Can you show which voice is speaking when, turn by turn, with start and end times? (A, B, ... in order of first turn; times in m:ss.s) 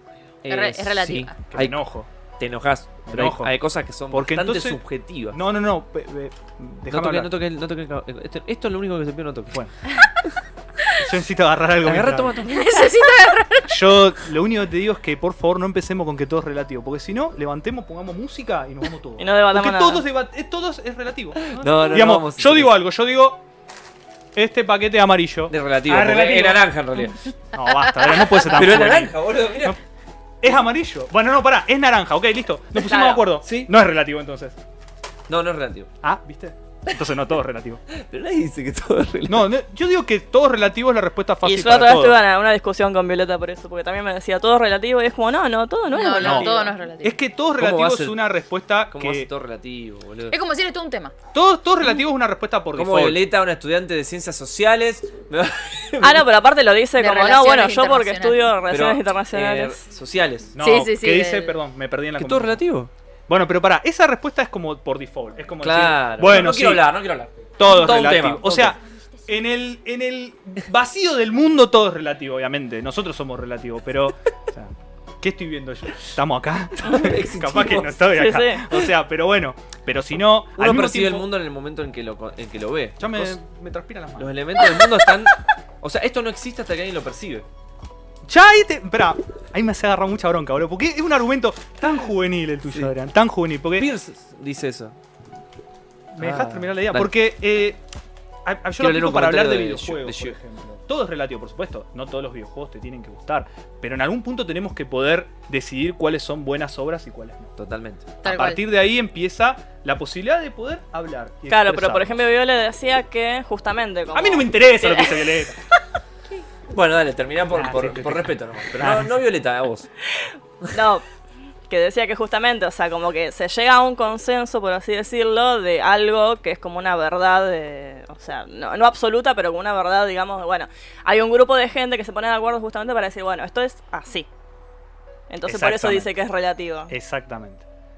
0:00.4-0:01.8 A
0:00.5-0:01.4 B
0:01.5-0:02.1 C
0:02.4-0:05.4 A
0:03.0-0:03.5 C
0:04.1-0:07.3 C
0:06.9-0:09.6 A
0:11.0-0:12.4 C
0:11.8-0:12.9 A
0:12.5-0:13.9 B
0:13.7-0:23.4 C
0:19.2-0:20.1 D
0:21.5-0:22.8 A
0:24.4-0:29.8 C
0:25.5-0:27.2 A
0:28.5-0:29.8 A
0:30.4-0:34.6 C
0:32.8-0:33.3 D
0:33.4-0:33.7 A
0:35.3-0:35.9 A
0:36.0-0:37.8 C
0:37.9-0:39.5 A
0:39.3-0:42.2 C
0:41.4-0:46.7 D
0:45.9-0:47.2 B
0:46.2-0:49.3 C
0:47.6-0:48.2 A
0:48.9-0:50.4 A
0:50.3-0:51.1 B
0:51.3-0:53.2 C
0:52.7-0:56.3 A
0:56.0-0:59.8 D
0:57.0-0:58.4 B
0:58.7-1:00.6 A
1:00.6-1:02.6 C
1:00.6-1:01.6 B
1:02.2-1:02.9 A
1:03.3-1:06.9 C
1:05.6-1:08.8 A
1:07.6-1:21.3 C
1:16.8-1:18.2 A
1:18.1-1:18.7 D
1:20.6-1:23.4 A
1:23.0-1:25.0 C
1:24.2-1:27.5 A
1:28.3-1:33.9 C
1:33.8-1:35.0 A
1:36.1-1:37.8 C
1:36.2-1:37.1 A
1:38.4-1:47.5 C
1:38.8-1:40.4 A
1:47.6-1:48.2 A
1:48.2-1:48.6 B
1:48.2-1:52.2 C
1:51.5-1:55.4 D
1:54.1-1:55.6 C
1:56.7-1:59.9 A
1:57.5-1:59.1 C
2:00.7-2:01.0 D
2:01.7-2:14.3 D
2:15.3-2:16.9 D
2:15.5-2:16.1 C
2:16.9-2:17.6 C